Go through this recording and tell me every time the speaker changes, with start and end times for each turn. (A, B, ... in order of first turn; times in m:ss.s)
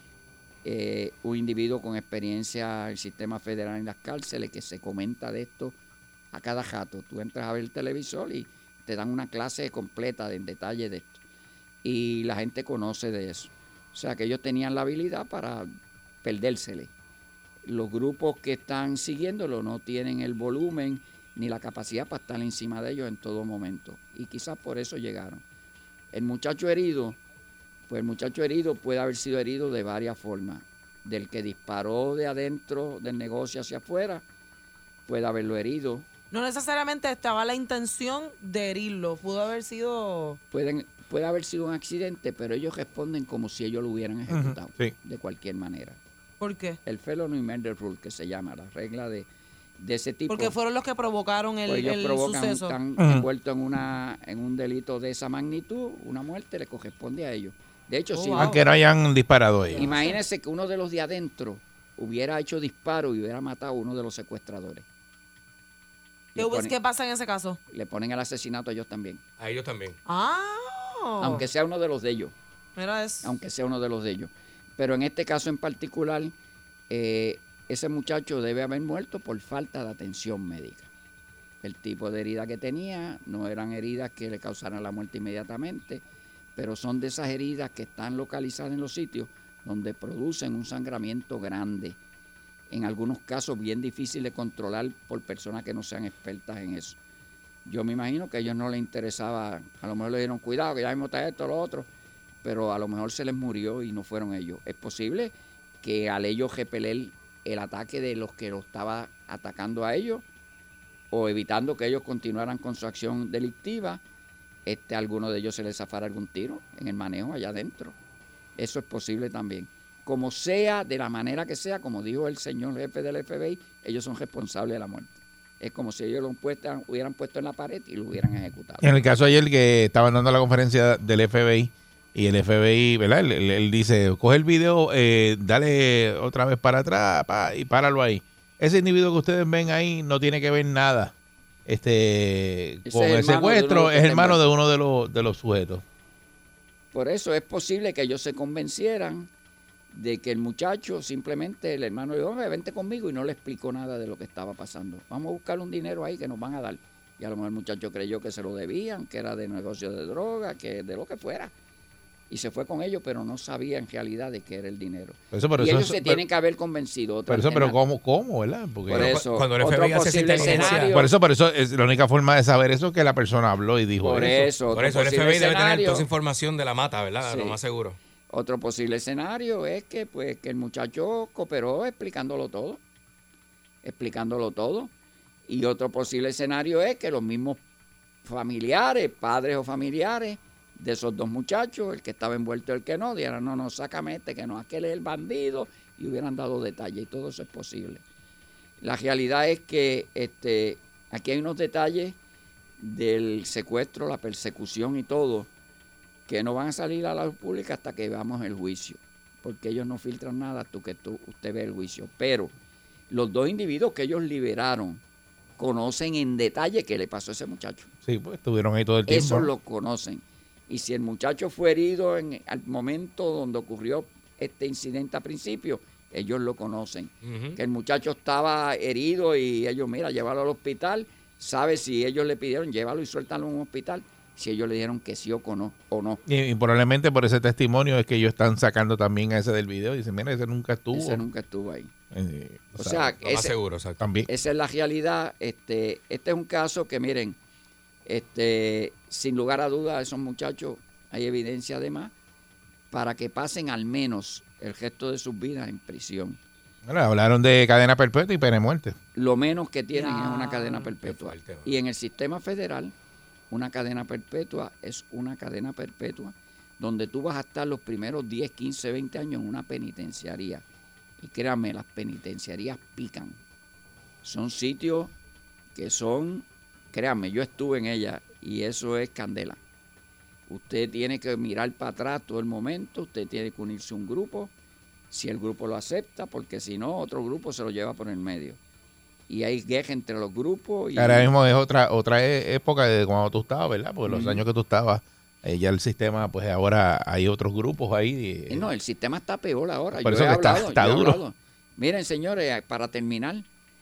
0:00.6-0:05.8 A
0:06.3-0:11.2 A
0:11.8-0:15.7 A
0:16.2-0:16.9 A
0:17.7-0:25.4 A
0:26.1-0:27.2 A
0:27.9-0:34.2 A
0:35.1-0:36.0 A
0:36.3-0:40.4 B
0:40.5-0:46.0 A
0:44.3-0:45.0 C
0:46.4-0:46.8 B
0:46.8-0:49.3 A
0:49.8-0:50.6 A
0:50.3-0:52.8 B
0:51.7-0:58.6 A
0:53.0-0:53.3 C
0:58.2-0:58.6 B
0:58.4-0:59.9 C
0:59.8-1:00.2 B
0:59.8-1:04.8 A
1:06.4-1:06.8 A
1:06.4-1:07.6 B
1:07.7-1:09.2 A
1:09.4-1:10.0 D
1:10.1-1:11.4 B
1:11.2-1:12.3 A
1:12.8-1:13.3 B
1:13.2-1:16.3 A
1:16.9-1:20.9 A
1:21.6-1:26.0 A
1:26.6-1:32.0 A
1:32.7-1:37.0 A
1:37.6-1:41.9 A
1:42.4-1:50.2 A
1:51.1-1:54.0 A
1:54.7-1:58.0 A
1:58.6-2:08.9 A
2:08.8-2:21.1 C
2:21.7-2:25.8 C
2:22.8-2:24.4 A
2:26.9-2:29.3 A
2:29.9-2:41.5 A
2:42.3-2:47.8 A
2:45.3-2:46.2 C
2:47.3-2:49.2 C
2:48.9-2:51.1 A
2:48.9-2:51.0 D
2:50.5-2:54.5 C
2:54.0-2:56.1 A
2:54.7-2:58.0 D
2:57.2-2:57.6 A
2:58.3-3:02.8 A
3:03.8-3:04.9 A
3:05.5-3:07.6 A
3:08.2-3:18.0 A
3:18.8-3:22.2 A
3:22.8-3:25.5 A
3:26.3-3:32.5 A
3:33.1-3:35.0 A
3:35.6-3:37.9 A
3:38.1-3:39.5 C
3:39.1-3:56.2 A
3:47.2-3:47.6 D
3:56.3-4:01.2 C
4:00.9-4:01.9 A
4:02.1-4:03.2 C
4:02.8-4:03.5 A
4:03.2-4:04.0 D
4:04.0-4:04.3 C
4:04.3-4:07.4 A
4:08.1-4:12.1 A
4:12.9-4:16.4 A
4:16.9-4:19.0 C
4:19.2-4:22.9 A
4:19.9-4:20.9 B
4:21.0-4:21.7 D
4:23.5-4:30.6 A
4:31.2-4:33.4 A
4:34.2-4:35.1 A
4:35.8-4:39.6 A
4:40.5-4:44.5 A
4:45.1-4:48.6 A
4:49.3-4:51.3 A
4:51.0-4:58.7 C
4:54.1-4:54.4 A
4:58.5-5:03.5 A
5:00.0-5:01.2 C